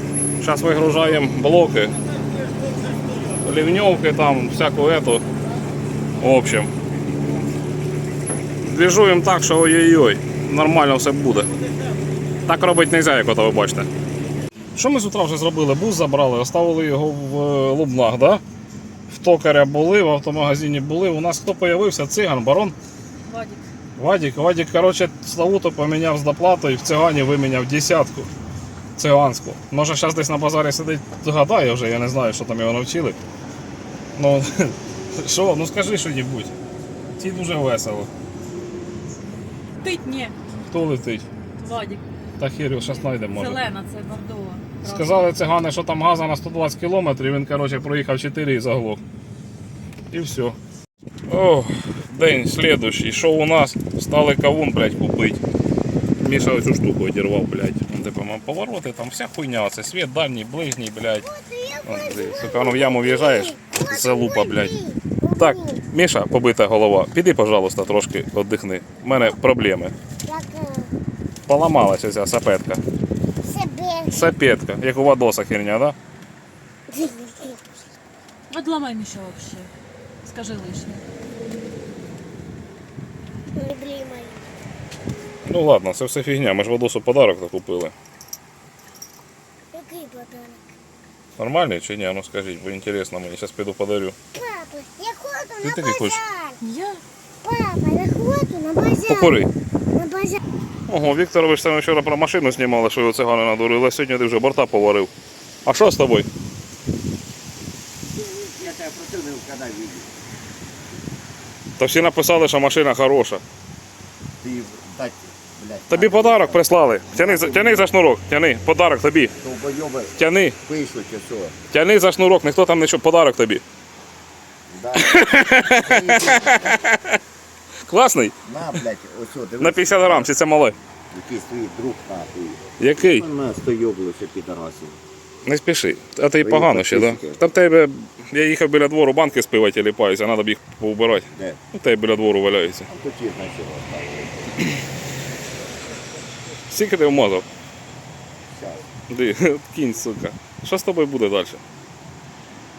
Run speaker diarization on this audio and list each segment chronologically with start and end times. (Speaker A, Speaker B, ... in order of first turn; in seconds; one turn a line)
Speaker A: 0.4-1.9
Speaker A: 3.4-5.2
Speaker A: 6.2-6.7
Speaker A: 8.6-11.5
Speaker A: 12.4-13.9
Speaker A: 14.8-18.4
Speaker A: 19.1-22.7
Speaker B: 23.2-23.6
Speaker A: 24.0-28.3
Speaker A: 28.9-33.2
Speaker A: 34.1-36.5
Speaker A: 37.1-38.1
Speaker B: 39.8-40.3
Speaker A: 40.6-41.2
Speaker B: 41.6-42.0
Speaker A: 42.4-43.6
Speaker B: 42.9-45.3
Speaker A: 44.8-49.0
Speaker A: 50.1-50.6
Speaker A: 51.3-55.4
Speaker A: 56.2-61.3
Speaker C: 61.2-65.8
Speaker A: 61.8-64.7
Speaker A: 65.3-69.9
Speaker C: 70.2-70.9
Speaker A: 71.5-72.8
Speaker C: 73.4-74.3
Speaker A: 74.1-75.9
Speaker C: 76.9-77.6
Speaker B: 78.5-79.7
Speaker B: 80.2-81.0
Speaker C: 83.5-84.4
Speaker A: 85.4-87.9
Speaker C: 89.7-90.6
Speaker A: 91.4-94.2
Speaker C: 94.3-96.6
Speaker A: 95.6-96.2
Speaker B: 96.6-97.0
Speaker C: 97.4-100.4
Speaker A: 99.1-99.5
Speaker A: 100.9-105.1
Speaker A: 105.6-106.3
Speaker D: 108.5-110.1
Speaker A: 111.8-113.4
Speaker D: 114.4-117.9
Speaker A: 115.9-119.3
Speaker D: 119.4-121.5
Speaker A: 120.2-120.6
Speaker A: 121.7-123.6
Speaker D: 124.7-126.8
Speaker A: 125.0-127.2
Speaker A: 127.8-128.3
Speaker D: 128.4-130.3
Speaker A: 129.6-130.8
Speaker D: 131.1-135.0
Speaker A: 132.8-133.2
Speaker A: 135.4-142.9
Speaker D: 136.4-137.4
Speaker D: 141.3-141.6
Speaker D: 142.9-144.7
Speaker A: 146.7-147.4
Speaker D: 148.5-148.8
Speaker A: 149.1-151.6